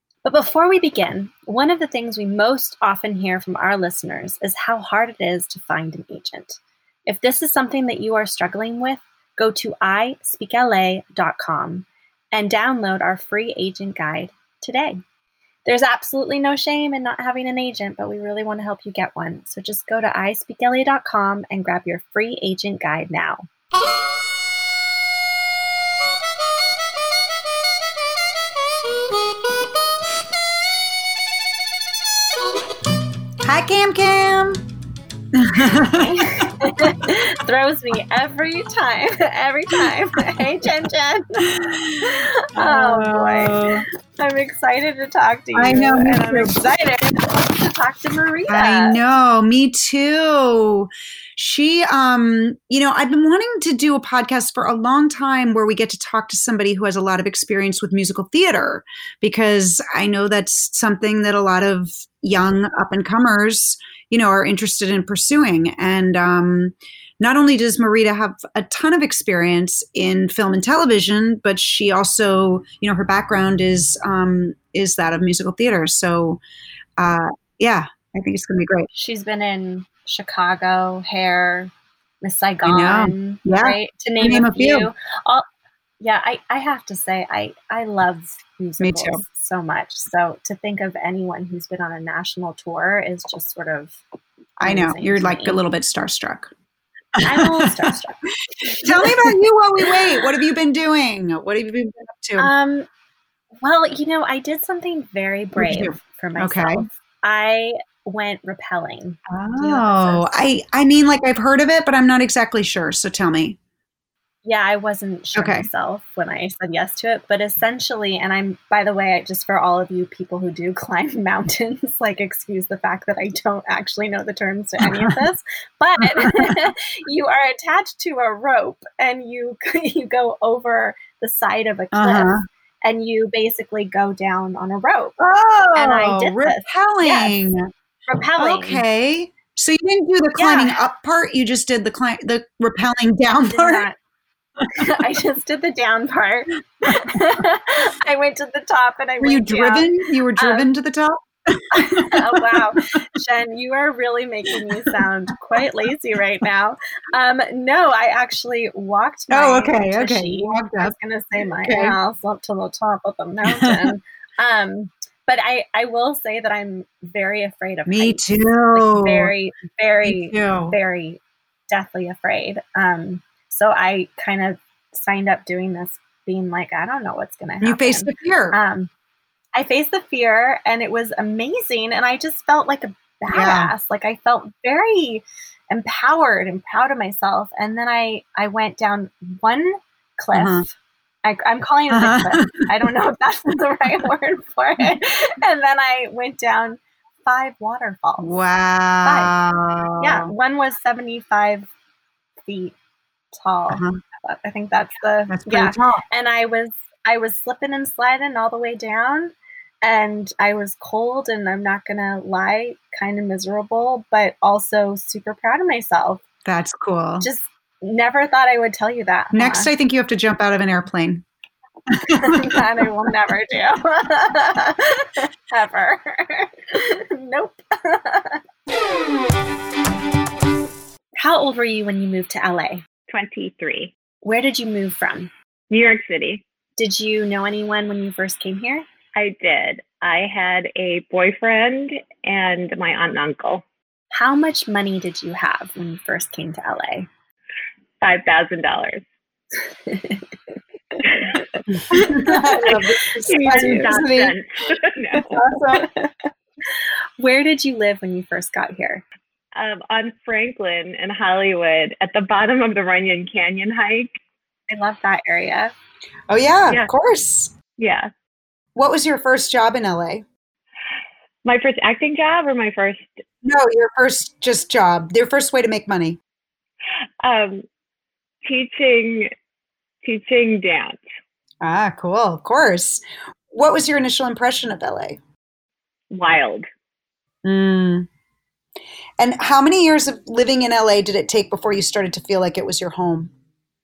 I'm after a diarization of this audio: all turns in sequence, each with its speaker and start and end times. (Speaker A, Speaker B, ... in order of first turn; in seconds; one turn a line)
Speaker A: 0.2-15.0
Speaker A: 15.7-23.5
Speaker B: 33.4-34.7
Speaker B: 35.3-36.3
Speaker A: 36.0-49.0
Speaker B: 41.5-43.9
Speaker B: 45.5-46.6
Speaker B: 48.5-76.4
Speaker B: 77.0-78.9
Speaker A: 78.9-81.7
Speaker A: 82.2-85.5
Speaker B: 82.6-84.9
Speaker A: 86.0-94.0
Speaker B: 88.8-89.2
Speaker B: 94.6-96.5
Speaker A: 94.6-95.6
Speaker A: 97.2-100.0
Speaker B: 97.3-97.9
Speaker B: 98.8-102.5
Speaker A: 102.4-102.9
Speaker A: 103.6-110.4
Speaker B: 105.6-106.9
Speaker B: 109.3-113.6
Speaker A: 114.5-135.2
Speaker B: 115.4-115.7
Speaker B: 124.9-125.1
Speaker B: 126.2-126.7
Speaker B: 131.9-132.4
Speaker B: 135.2-137.6
Speaker A: 135.8-137.6
Speaker A: 138.1-138.8
Speaker B: 138.4-143.9
Speaker A: 140.4-140.8
Speaker A: 143.5-144.0
Speaker A: 144.7-150.7
Speaker B: 149.2-153.0
Speaker A: 151.7-178.9
Speaker B: 159.3-160.9
Speaker B: 161.6-162.0
Speaker B: 167.9-169.3
Speaker B: 170.0-170.8
Speaker B: 177.6-178.6
Speaker A: 179.6-198.4
Speaker B: 183.3-183.7
Speaker B: 190.3-190.7
Speaker B: 191.9-192.7
Speaker B: 198.2-200.3
Speaker A: 199.0-199.3
Speaker A: 200.0-201.7
Speaker A: 202.4-202.8
Speaker A: 203.3-216.2
Speaker B: 203.7-204.0
Speaker B: 205.3-206.0
Speaker B: 216.4-217.3
Speaker A: 217.2-219.7
Speaker B: 219.3-221.2
Speaker B: 221.9-222.6
Speaker A: 222.1-228.4
Speaker A: 231.2-232.8
Speaker C: 233.1-233.9
Speaker A: 234.2-235.3
Speaker C: 235.7-236.4
Speaker A: 236.8-238.9
Speaker C: 239.2-243.6
Speaker A: 244.1-247.1
Speaker C: 248.0-249.0
Speaker A: 249.9-250.3
Speaker C: 251.1-251.3
Speaker B: 251.9-254.3
Speaker A: 251.9-253.9
Speaker C: 253.3-255.3
Speaker B: 255.2-255.9
Speaker A: 255.8-256.1
Speaker A: 256.7-259.0
Speaker C: 259.6-264.1
Speaker A: 264.7-265.7
Speaker B: 266.3-267.5
Speaker C: 267.8-268.1
Speaker B: 268.8-270.2
Speaker C: 271.4-273.2
Speaker B: 273.4-276.2
Speaker C: 277.2-277.7
Speaker C: 278.4-279.3
Speaker C: 280.0-281.0
Speaker B: 281.6-285.2
Speaker C: 286.1-286.6
Speaker B: 287.4-288.1
Speaker B: 289.2-293.3